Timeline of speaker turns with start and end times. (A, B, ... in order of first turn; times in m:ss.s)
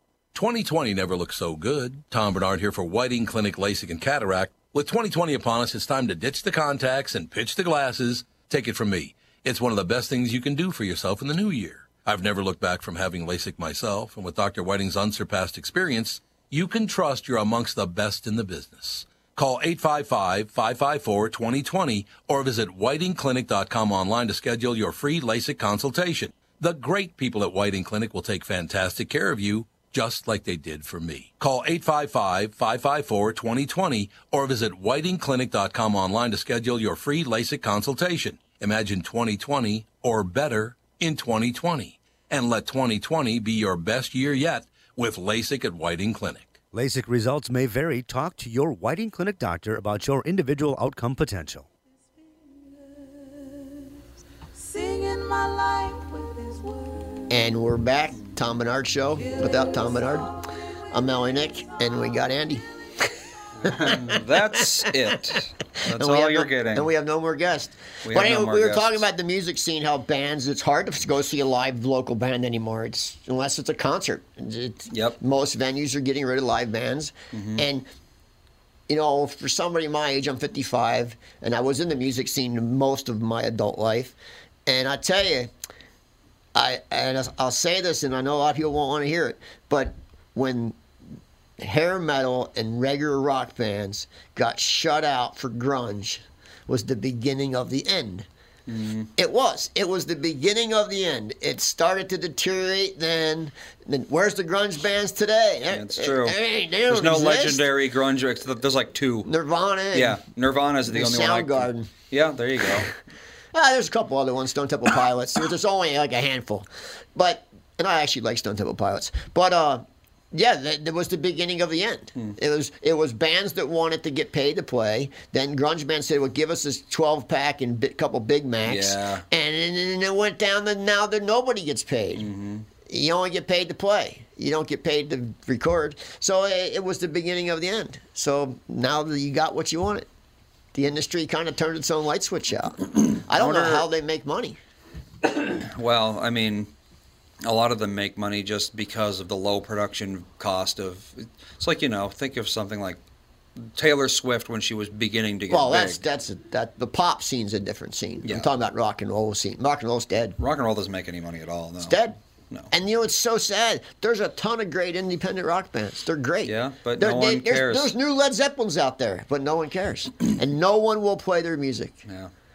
0:00.3-0:46.6 A
0:46.7-0:51.7 B
0:53.0-0:53.8 C
0:54.6-0:57.4 C
0:57.3-1:00.3 D
0:59.2-1:00.2 C
1:00.9-1:02.7 D
1:03.6-1:06.9 E
1:03.6-1:04.6 D
1:05.9-1:17.9 D
1:08.0-1:09.0 E
1:14.9-1:15.2 E
1:17.3-1:17.6 E
1:18.9-1:25.5 D
1:26.5-1:30.8 D
1:31.6-1:38.3 D
1:38.7-1:39.1 E
1:39.2-1:47.7 D
1:45.7-1:46.4 E
1:46.9-1:49.3 E
1:49.2-1:50.2 D
1:49.9-1:52.9 E
1:50.9-1:51.9 D
1:53.5-2:12.3 D
2:08.6-2:09.2 E
2:12.2-2:12.7 E
2:12.8-2:20.1 D
2:20.7-2:24.6 D
2:23.4-2:23.9 E
2:25.3-2:26.7 E
2:27.4-2:33.0 E
2:33.6-2:36.0 E
2:35.5-2:40.4 D
2:40.4-2:42.0 E
2:41.8-2:42.2 D
2:42.7-2:52.0 D
2:46.4-2:47.9 E
2:52.1-2:52.3 E